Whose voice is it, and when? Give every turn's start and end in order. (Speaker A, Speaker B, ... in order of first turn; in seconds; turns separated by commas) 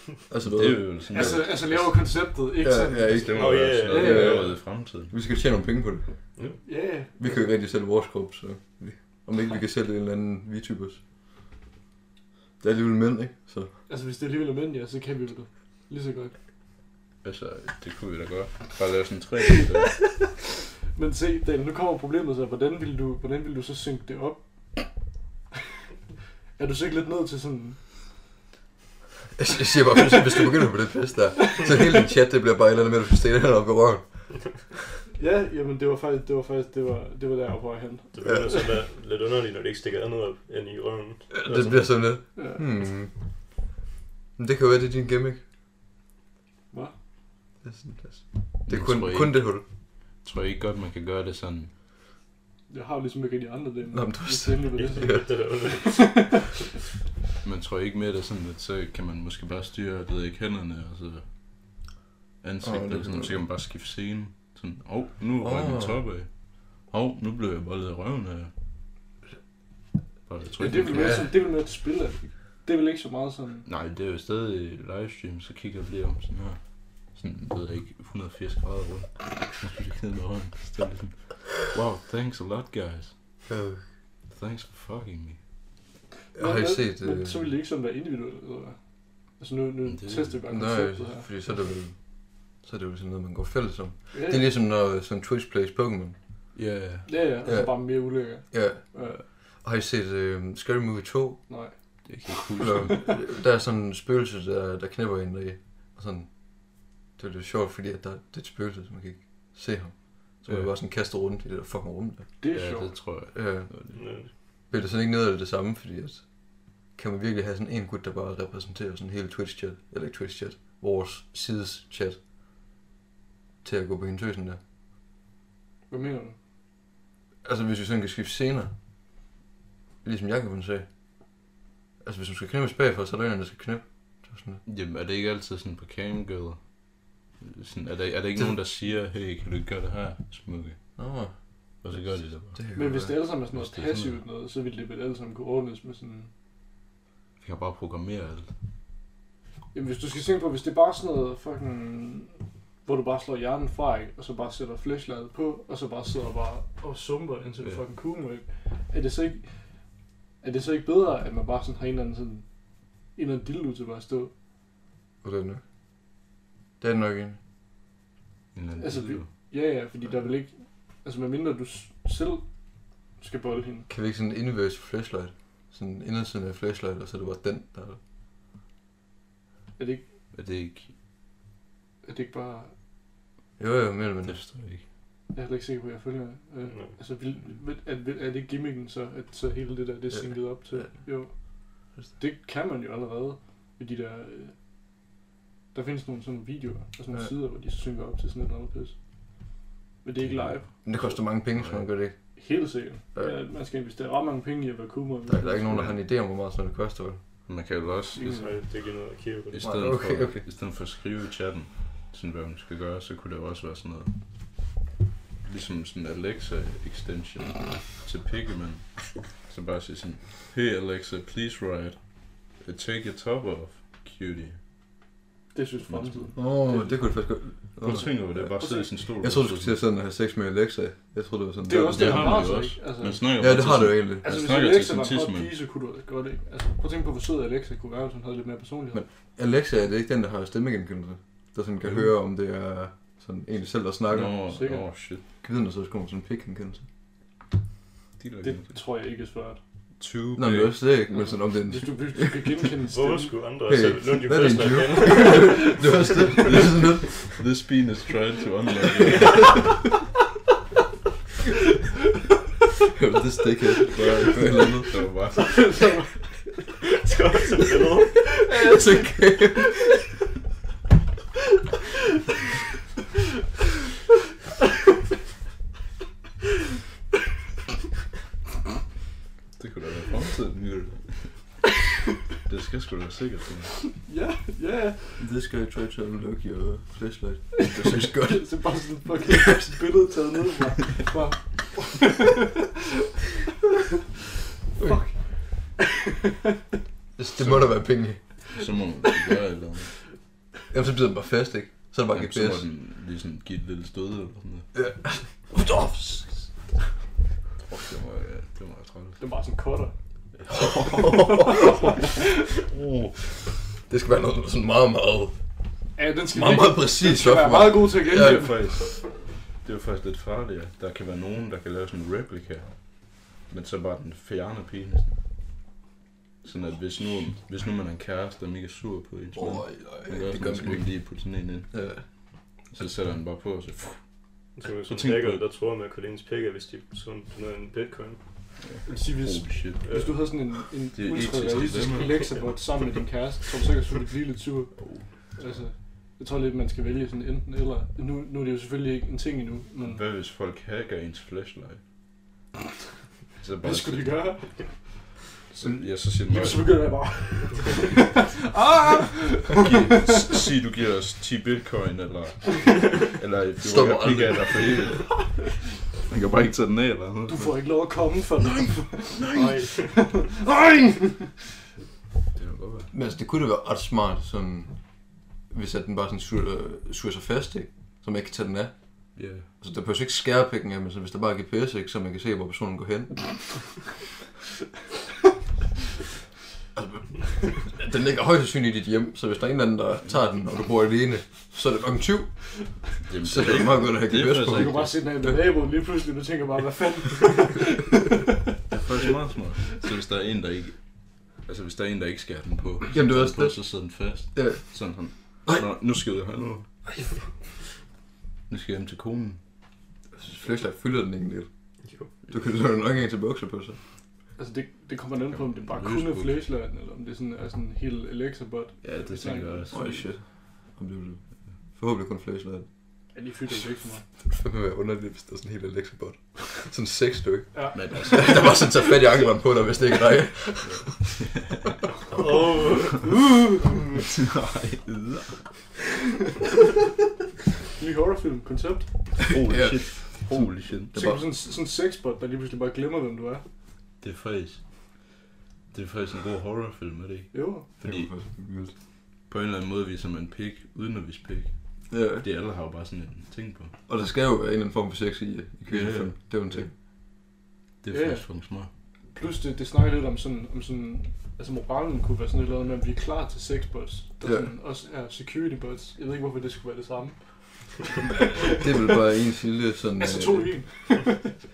Speaker A: 0.3-1.4, Speaker B: 0.5-2.3, Speaker C: 1.1-4.4, Speaker A: 2.6-6.2, Speaker B: 3.2-5.1, Speaker D: 3.3-4.5, Speaker C: 6.6-7.5, Speaker A: 7.2-11.0, Speaker A: 12.6-13.7, Speaker C: 13.9-16.4, Speaker B: 17.2-20.4, Speaker C: 20.9-24.9, Speaker C: 26.6-27.9, Speaker A: 29.4-34.7, Speaker C: 35.2-38.6, Speaker D: 38.1-42.0, Speaker A: 41.3-43.1, Speaker C: 42.4-42.6, Speaker A: 44.4-45.4, Speaker C: 46.7-47.0, Speaker A: 47.6-49.6, Speaker B: 48.7-51.7, Speaker C: 52.7-56.4, Speaker A: 53.9-55.3, Speaker D: 54.7-56.5, Speaker B: 57.4-61.3, Speaker B: 62.4-68.5, Speaker A: 62.6-63.4, Speaker A: 65.4-66.0, Speaker B: 70.3-71.3, Speaker C: 70.6-73.7, Speaker A: 70.8-71.3, Speaker B: 73.7-83.2, Speaker A: 83.5-83.8, Speaker B: 84.3-85.4, Speaker A: 86.3-87.5, Speaker C: 86.3-91.3, Speaker B: 89.9-90.4, Speaker A: 90.5-96.2, Speaker C: 94.1-94.5, Speaker B: 96.5-97.2, Speaker C: 97.0-99.2, Speaker A: 97.5-101.5, Speaker C: 101.5-103.1, Speaker B: 102.0-103.1, Speaker A: 102.6-112.3, Speaker B: 110.5-110.7, Speaker C: 112.4-113.0, Speaker B: 112.5-114.0, Speaker A: 113.3-122.2, Speaker D: 113.9-114.3, Speaker A: 123.6-124.6, Speaker C: 125.9-126.4, Speaker A: 127.4-128.7, Speaker A: 130.0-130.9, Speaker A: 132.0-134.6, Speaker B: 134.7-140.8, Speaker A: 141.0-143.2, Speaker B: 141.8-142.6, Speaker C: 142.7-146.3, Speaker B: 143.5-144.2, Speaker B: 147.4-148.5, Speaker C: 149.7-159.8, Speaker C: 160.4-162.5, Speaker C: 163.1-164.3, Speaker A: 165.2-165.6, Speaker A: 166.8-167.4, Speaker B: 168.5-169.3, Speaker C: 168.8-173.9, Speaker A: 173.9-178.0, Speaker C: 179.8-180.1, Speaker B: 180.3-180.9, Speaker C: 182.0-182.7, Speaker A: 183.6-184.4, Speaker B: 184.3-184.8, Speaker C: 185.3-194.6, Speaker D: 186.7-187.0, Speaker C: 195.7-199.0, Speaker C: 200.0-200.7, Speaker B: 200.2-200.8, Speaker A: 200.8-202.2, Speaker B: 201.5-201.9, Speaker C: 202.3-205.9, Speaker A: 205.3-207.2, Speaker B: 207.5-208.5, Speaker C: 208.1-208.5, Speaker D: 208.2-209.9, Speaker B: 209.5-214.2, Speaker A: 209.6-210.4, Speaker B: 215.4-224.6, Speaker C: 225.5-227.0, Speaker B: 225.9-226.4, Speaker A: 226.4-232.7, Speaker B: 227.8-229.8, Speaker C: 227.8-228.9, Speaker C: 231.6-233.3, Speaker B: 231.9-235.6, Speaker A: 233.4-234.2, Speaker C: 234.2-239.0, Speaker A: 238.9-244.4, Speaker B: 241.8-242.1, Speaker B: 244.1-245.2, Speaker C: 244.5-244.8, Speaker A: 245.4-246.9, Speaker B: 248.2-248.8, Speaker C: 248.4-249.6, Speaker B: 250.0-250.8, Speaker A: 250.4-252.5, Speaker C: 251.1-253.4, Speaker D: 252.9-256.4, Speaker A: 253.7-257.3, Speaker B: 256.4-259.8, Speaker A: 262.9-265.1, Speaker B: 263.9-266.0, Speaker C: 265.4-266.3, Speaker D: 266.9-268.4, Speaker C: 268.4-269.2, Speaker A: 268.6-269.9, Speaker B: 279.6-281.8, Speaker B: 282.4-283.9, Speaker C: 284.0-285.2, Speaker A: 285.2-289.4, Speaker C: 287.6-292.5, Speaker A: 294.8-295.0, Speaker C: 294.8-295.9, Speaker A: 297.2-298.4, Speaker B: 297.4-300.0, Speaker A: 300.7-302.7, Speaker B: 302.1-304.7, Speaker A: 304.7-306.4, Speaker B: 307.6-309.2, Speaker C: 309.2-309.9, Speaker B: 310.4-311.5, Speaker A: 310.5-311.9, Speaker C: 311.3-311.9, Speaker B: 312.7-313.2, Speaker A: 313.8-315.4, Speaker C: 316.0-318.7, Speaker A: 316.3-318.7, Speaker B: 318.0-325.2, Speaker B: 326.4-332.1, Speaker A: 329.4-332.9, Speaker B: 332.6-335.4, Speaker D: 334.5-338.2, Speaker B: 338.6-339.9, Speaker C: 338.9-350.0, Speaker D: 339.9-340.2, Speaker B: 340.9-342.5, Speaker B: 344.8-345.1, Speaker B: 349.9-351.8, Speaker B: 353.4-354.4, Speaker C: 353.6-355.0, Speaker C: 355.5-360.3, Speaker B: 355.6-357.1, Speaker B: 359.5-369.6, Speaker A: 363.6-364.9, Speaker C: 367.3-371.4, Speaker D: 369.3-370.0, Speaker B: 372.4-372.9, Speaker A: 372.9-384.0, Speaker B: 379.1-379.5, Speaker A: 386.8-395.4, Speaker B: 393.0-395.0, Speaker C: 394.5-398.2, Speaker B: 398.7-406.7, Speaker A: 402.9-404.7, Speaker B: 408.5-409.4, Speaker A: 410.1-411.5, Speaker D: 411.8-412.3, Speaker A: 412.1-413.8, Speaker C: 414.4-420.0, Speaker B: 415.3-416.5, Speaker B: 418.8-420.1, Speaker A: 419.7-422.7, Speaker C: 423.1-424.1, Speaker A: 424.2-431.0, Speaker C: 427.5-428.3, Speaker B: 427.7-428.5, Speaker B: 430.6-431.7, Speaker D: 432.1-433.7, Speaker B: 434.0-435.6, Speaker C: 437.8-439.3, Speaker B: 439.3-440.9, Speaker A: 439.5-441.3, Speaker C: 440.9-443.4, Speaker B: 444.0-445.2, Speaker B: 445.7-448.1, Speaker C: 447.3-447.7, Speaker A: 447.8-448.7, Speaker B: 449.3-453.7, Speaker A: 451.9-452.2, Speaker A: 453.9-456.7, Speaker B: 455.6-456.7, Speaker B: 457.8-458.7, Speaker C: 457.9-458.3, Speaker C: 459.1-468.7, Speaker A: 464.2-464.5, Speaker A: 468.4-470.8, Speaker C: 470.0-471.4